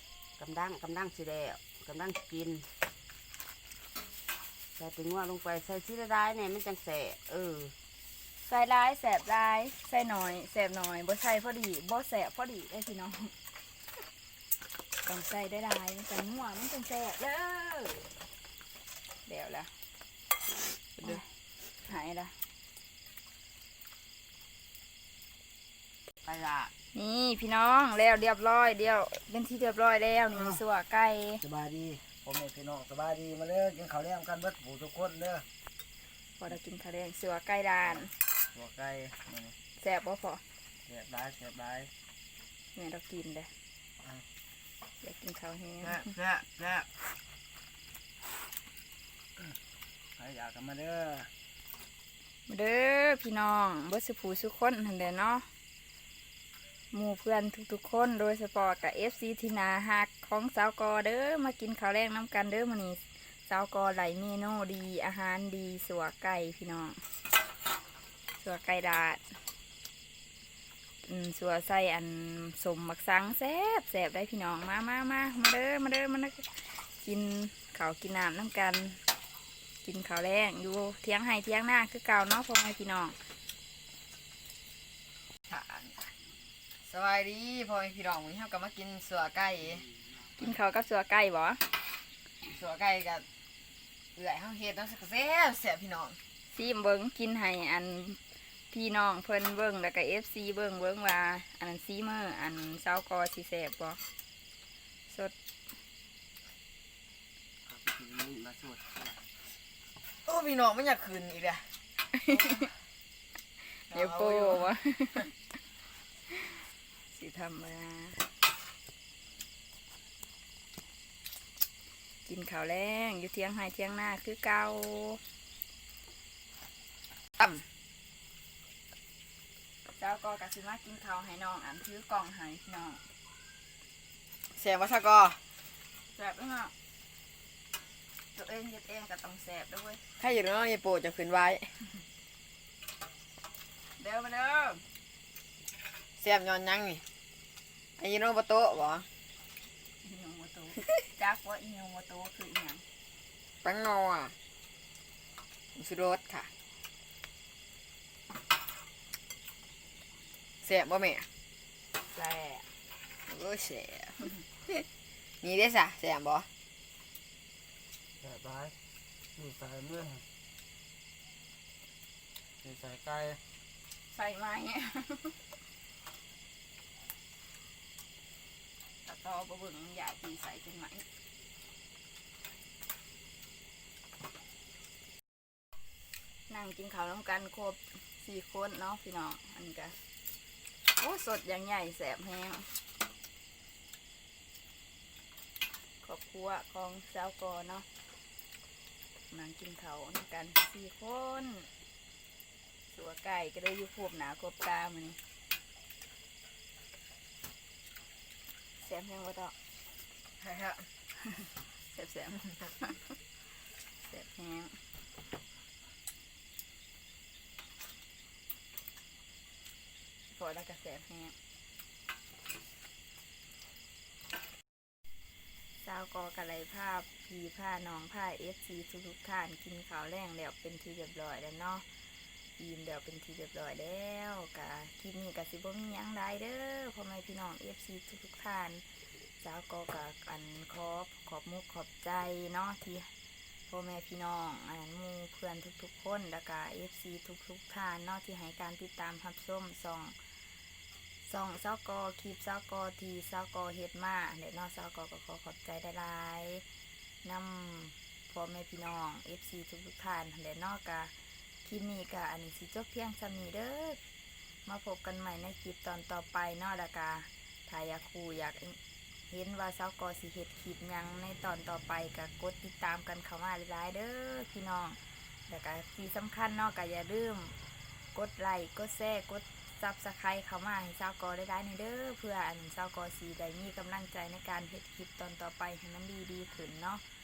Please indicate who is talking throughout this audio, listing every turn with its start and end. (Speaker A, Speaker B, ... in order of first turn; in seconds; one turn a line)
Speaker A: 0.4-2.7
Speaker A: 4.8-7.7
Speaker B: 8.4-13.3
Speaker B: 15.0-18.1
Speaker B: 19.2-19.7
Speaker C: 21.0-21.2
Speaker B: 21.8-22.4
Speaker C: 26.3-26.7
Speaker B: 26.9-31.5
Speaker D: 31.4-35.5
Speaker B: 36.4-38.1
Speaker D: 38.5-39.5
Speaker B: 39.8-40.4
Speaker D: 40.9-41.9
Speaker B: 42.7-43.5
Speaker B: 45.0-46.1
Speaker D: 46.0-46.9
Speaker D: 50.2-51.3
Speaker B: 52.5-55.5
Speaker B: 56.9-67.0
Speaker B: 68.4-69.4
Speaker B: 71.0-79.0
Speaker B: 79.8-83.2
Speaker C: 85.5-86.1
Speaker C: 86.8-89.9
Speaker B: 90.2-91.8
Speaker C: 92.4-93.2
Speaker C: 94.2-96.2
Speaker B: 96.5-98.2
Speaker B: 98.7-104.0
Speaker B: 105.1-105.3
Speaker D: 107.7-109.1
Speaker C: 110.2-111.7
Speaker B: 112.1-112.7
Speaker C: 112.3-112.6
Speaker B: 113.6-115.6
Speaker C: 113.9-114.7
Speaker B: 116.2-118.3
Speaker B: 122.2-125.2
Speaker B: 129.9-133.0
Speaker C: 134.5-135.4
Speaker B: 136.1-136.7
Speaker B: 138.3-140.0
Speaker C: 140.2-141.7
Speaker B: 144.0-144.8
Speaker C: 146.2-147.0
Speaker C: 148.0-149.1
Speaker B: 150.0-152.8
Speaker C: 153.6-154.3
Speaker C: 155.7-156.5
Speaker C: 160.6-161.3
Speaker B: 162.0-162.7
Speaker C: 163.2-164.8
Speaker C: 165.4-166.5
Speaker D: 168.2-168.7
Speaker D: 169.4-170.2
Speaker D: 172.6-173.4
Speaker B: 174.1-175.4
Speaker B: 179.0-181.1
Speaker B: 186.5-190.0
Speaker B: 190.9-192.8
Speaker B: 196.0-197.9
Speaker B: 199.3-201.7
Speaker B: 202.9-205.2
Speaker B: 208.8-209.6
Speaker C: 210.4-210.9
Speaker B: 211.4-213.1
Speaker B: 213.9-214.8
Speaker B: 220.3-221.3
Speaker B: 225.8-231.8
Speaker B: 232.6-238.8
Speaker B: 239.4-243.1
Speaker B: 243.7-250.2
Speaker B: 251.2-256.6
Speaker B: 257.2-264.0
Speaker B: 264.6-268.8
Speaker B: 269.3-277.6
Speaker B: 278.1-287.0